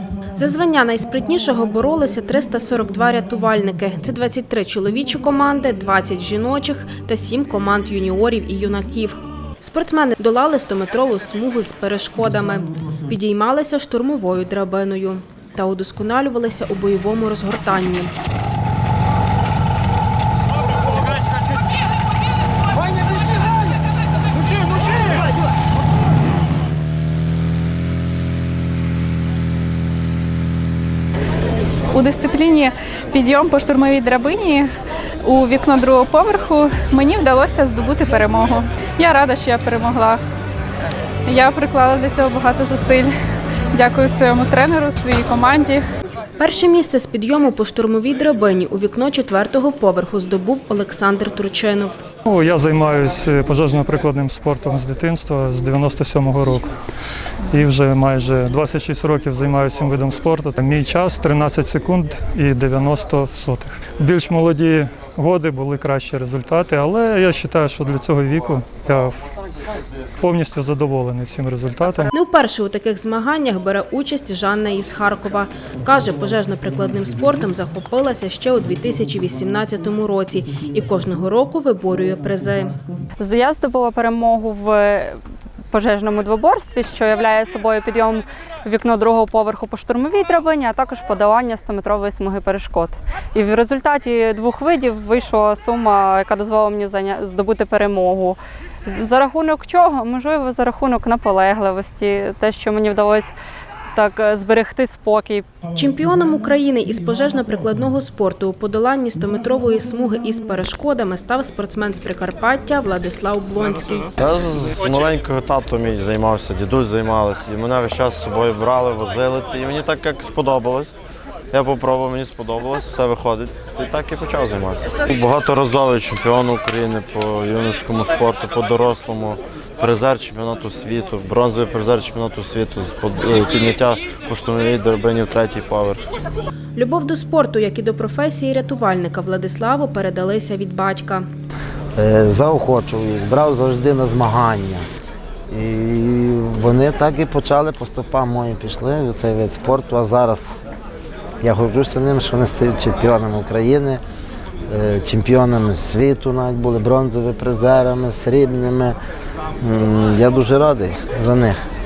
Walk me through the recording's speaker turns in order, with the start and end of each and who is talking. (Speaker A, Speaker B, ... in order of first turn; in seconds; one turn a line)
Speaker A: 0.3-18.1
Speaker B: 31.9-34.7
Speaker B: 35.2-40.2
Speaker B: 41.3-43.1
Speaker B: 43.7-45.8
Speaker A: 46.4-51.9
Speaker C: 52.3-56.7
Speaker C: 57.5-69.2
Speaker C: 70.2-72.1
Speaker A: 72.1-82.7
Speaker D: 83.2-85.2
Speaker D: 85.7-103.3
Speaker D: 103.9-105.4
Speaker A: 105.7-114.1
Speaker E: 114.2-120.9
Speaker E: 121.5-136.0
Speaker A: 136.8-141.2
Speaker F: 142.0-144.8
Speaker F: 145.5-150.6
Speaker F: 151.4-154.0
Speaker F: 154.7-159.0
Speaker F: 159.6-161.6